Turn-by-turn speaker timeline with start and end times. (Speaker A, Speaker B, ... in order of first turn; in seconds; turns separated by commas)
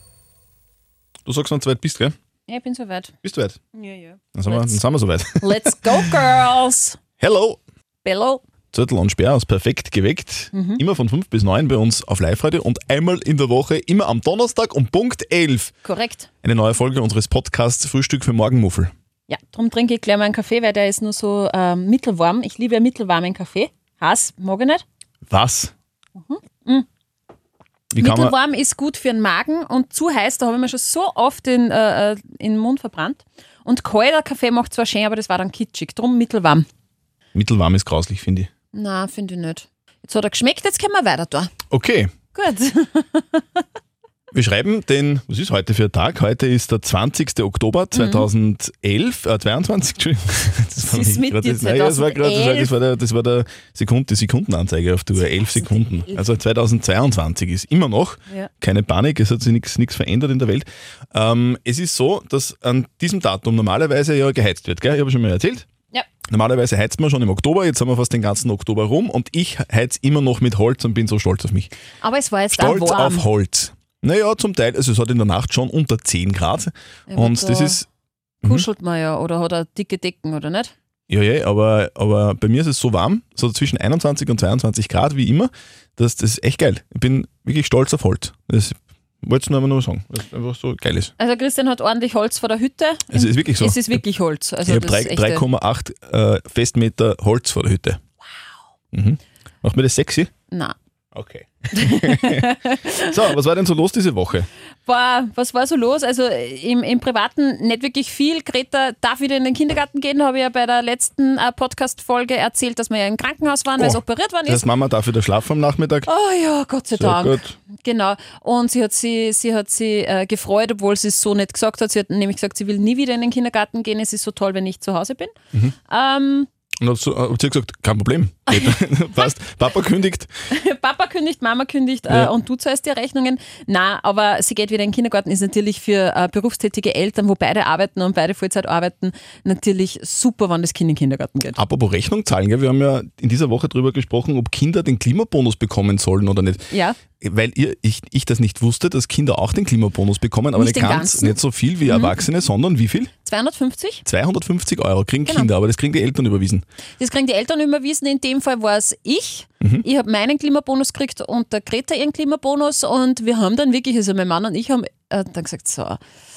Speaker A: 1.2-2.1, Speaker B: 2.5-3.1, Speaker A: 3.2-3.6, Speaker B: 3.7-4.8, Speaker A: 4.3-6.1, Speaker B: 5.4-7.0, Speaker A: 7.2-7.6, Speaker B: 8.0-8.4, Speaker A: 8.7-15.7, Speaker B: 10.5-10.8, Speaker B: 15.8-16.3, Speaker A: 16.4-18.9, Speaker B: 19.3-24.8, Speaker A: 25.3-25.7, Speaker B: 26.2-26.9, Speaker A: 27.9-28.3, Speaker B: 28.0-36.6, Speaker A: 37.3-38.5, Speaker B: 38.7-41.5, Speaker A: 41.7-42.1, Speaker B: 42.3-43.6, Speaker A: 44.3-65.7, Speaker B: 47.9-48.3, Speaker B: 50.8-52.7, Speaker B: 55.2-56.2, Speaker A: 66.3-71.7, Speaker B: 72.0-73.2, Speaker A: 72.5-77.9, Speaker B: 77.1-77.8, Speaker B: 78.4-80.7, Speaker A: 81.1-91.1, Speaker B: 91.2-95.4, Speaker A: 93.1-94.0, Speaker A: 94.6-98.0, Speaker A: 98.9-100.3, Speaker B: 100.5-100.8, Speaker A: 101.1-104.5, Speaker B: 101.7-103.2, Speaker B: 104.8-114.6, Speaker A: 113.8-116.1, Speaker B: 116.1-125.3, Speaker A: 116.9-117.5, Speaker B: 125.9-126.5, Speaker A: 126.8-130.3, Speaker B: 128.5-128.9, Speaker B: 130.5-141.6, Speaker A: 141.6-146.6, Speaker B: 146.7-147.0, Speaker A: 147.2-153.1, Speaker B: 150.5-152.2, Speaker B: 153.2-154.0, Speaker A: 154.0-156.6, Speaker B: 155.2-155.5, Speaker B: 157.0-166.0